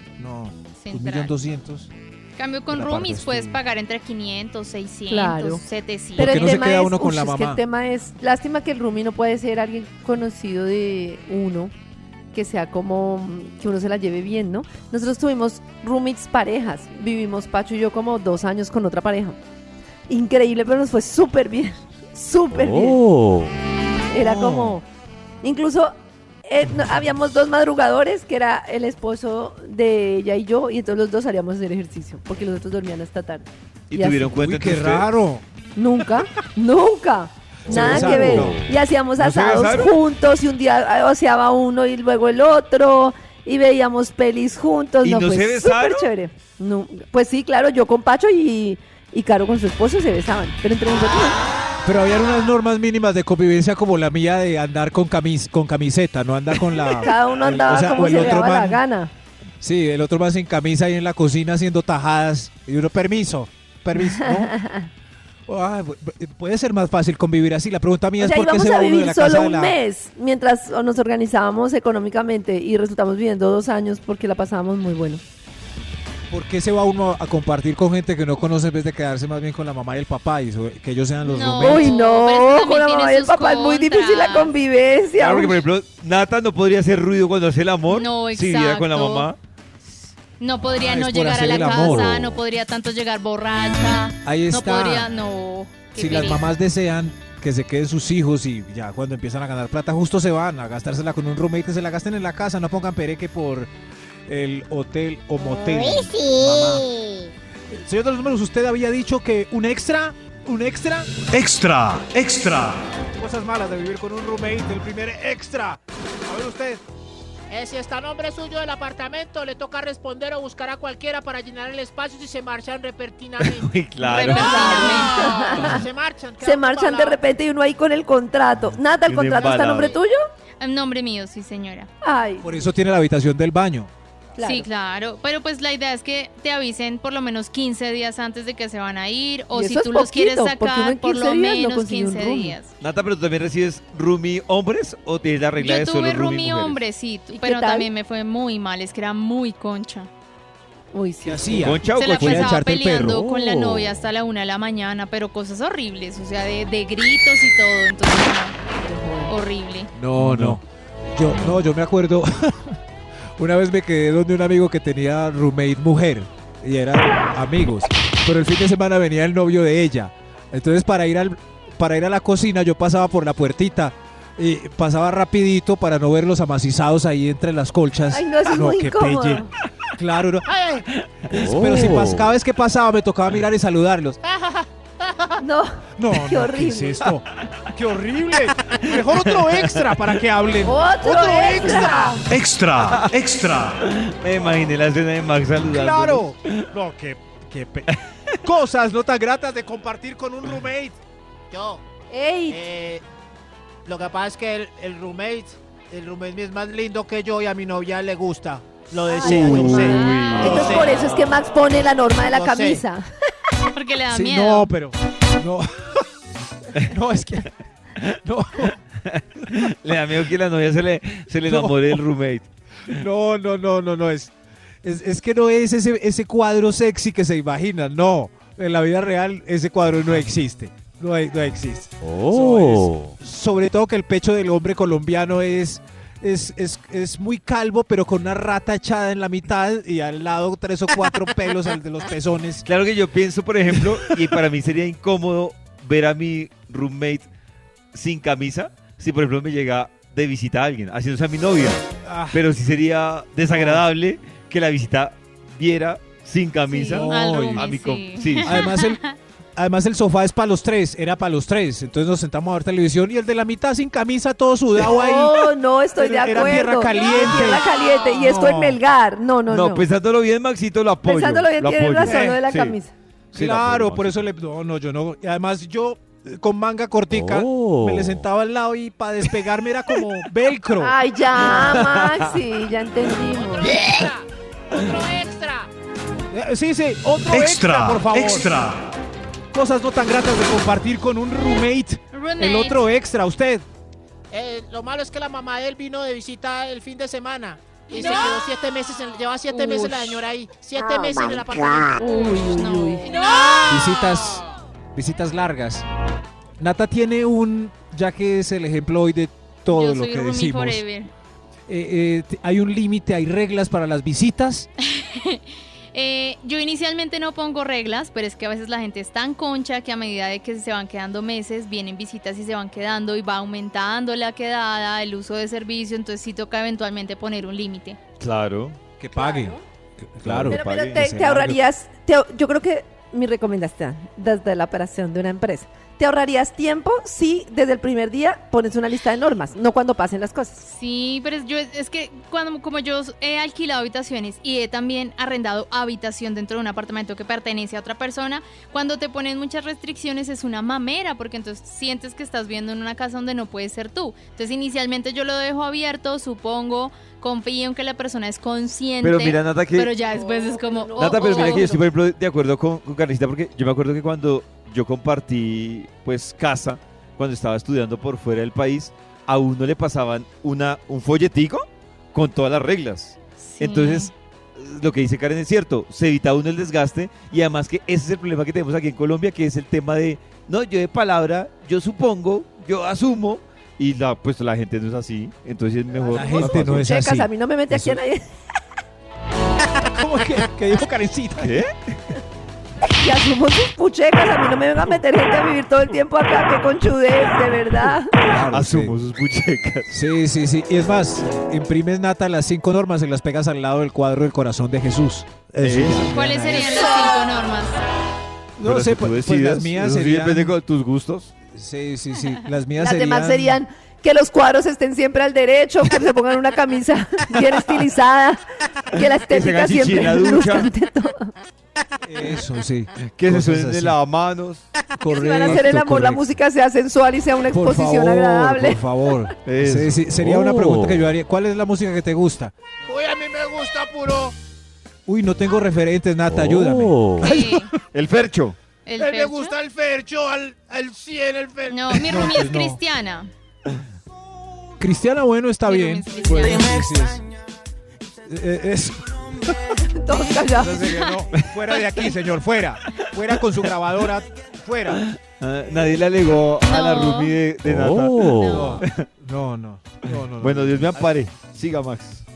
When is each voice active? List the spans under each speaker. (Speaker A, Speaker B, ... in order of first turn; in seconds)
Speaker A: 0.2-1.9, 2.7-3.6, 6.2-7.6, 24.1-24.8, 34.4-35.4, 37.6-38.6, 51.8-58.8, 59.6-64.5, 65.5-69.8, 76.3-82.0, 90.8-92.4, 94.2-95.1, 95.9-103.7, 104.3-106.9, 107.7-111.1, 113.1-116.8, 132.4-133.9, 151.2-153.4, 159.9-160.6, 161.1-162.8, 163.4-180.4, 181.3-184.2, 186.0-192.1, 195.7-201.0, 209.2-209.7, 214.1-216.0, 216.7-217.5, 218.0-218.8, 221.4-222.0, 222.9-242.7, 252.0-252.4, 253.5-253.8, 256.7-257.7, 258.4-259.0, 259.6-267.6, 268.2-268.8, 272.0-272.4, 273.3-280.9, 286.3-288.5, 289.5-293.6, 303.7-304.4, 304.9-305.9, 306.6-310.8, 311.7-314.7, 329.0-329.6, 330.1-331.6, 386.1-388.0, 389.9-391.6, 398.2-398.9, 399.9-406.8, 408.6-410.5, 411.5-413.6, 422.0-424.0, 425.0-426.2, 427.5-432.5, 435.1-437.7, 441.9-442.8, 444.8-447.3, 448.2-449.5, 450.5-455.0, 458.4-461.1
Speaker B: 0.8-1.3, 2.4-6.4, 81.2-84.5, 87.9-89.3, 90.4-96.4, 124.0-125.2, 130.6-131.9, 134.4-142.7, 145.6-150.1, 151.9-158.6, 159.3-159.9, 213.7-214.7, 257.1-259.2, 292.1-292.8, 297.9-298.3, 299.5-300.2, 302.7-303.1, 309.7-311.1, 314.8-328.0, 340.7-361.7, 373.4-374.1, 406.1-407.8, 437.2-437.7, 438.8-439.5, 441.7-443.3, 445.6-446.9, 456.7-457.4, 458.2-458.8
Speaker C: 5.1-5.6, 6.1-11.7, 12.3-19.4, 20.1-23.0, 24.1-24.8, 25.4-25.9, 26.5-34.3, 35.8-51.4, 56.9-59.1, 64.2-64.9, 68.2-75.2, 81.6-85.6, 124.3-125.8, 126.4-130.2, 132.0-132.5, 134.4-134.7, 139.5-142.5, 147.3-147.9, 150.9-151.7, 158.8-159.3, 178.1-179.5, 185.4-187.1, 190.6-192.2, 202.1-202.6, 209.1-213.1, 264.9-269.8, 271.0-272.9, 280.8-283.7, 302.0-303.1, 329.2-329.5, 330.4-340.7, 360.1-361.9, 386.3-388.2, 393.0-398.1, 412.8-421.3, 425.1-428.8, 449.9-450.7
Speaker D: 22.5-23.5, 111.3-112.8, 153.2-154.0, 181.3-182.2, 192.3-193.8, 232.0-233.1, 277.1-278.2, 287.3-288.9, 430.2-431.1, 436.3-437.2, 457.6-458.6
Speaker E: 33.9-35.1, 37.6-38.5, 39.2-39.9, 45.0-46.1, 85.2-89.4, 123.4-124.6, 129.1-130.0, 142.8-146.8, 151.6-152.6, 160.1-160.6, 188.8-189.8, 192.8-193.1, 193.8-196.7, 209.2-210.8, 219.1-222.5, 242.6-247.3, 247.9-251.8, 252.3-258.7, 269.5-272.8, 273.3-274.2, 281.4-282.1, 328.2-328.8, 330.2-331.1, 359.0-359.9, 361.0-386.9, 391.4-391.9, 398.2-400.0, 405.6-406.1, 408.6-411.3, 419.2-420.7, 423.1-424.7, 429.4-430.1, 437.9-438.6, 454.9-459.1, 460.4-462.2
Speaker F: 117.5-123.7, 124.9-127.2, 180.4-180.8, 184.2-185.3, 191.0-192.2, 201.5-201.8, 202.5-203.0, 203.8-211.3, 212.3-212.8, 283.2-285.7, 294.3-302.3, 432.9-434.3, 439.0-442.0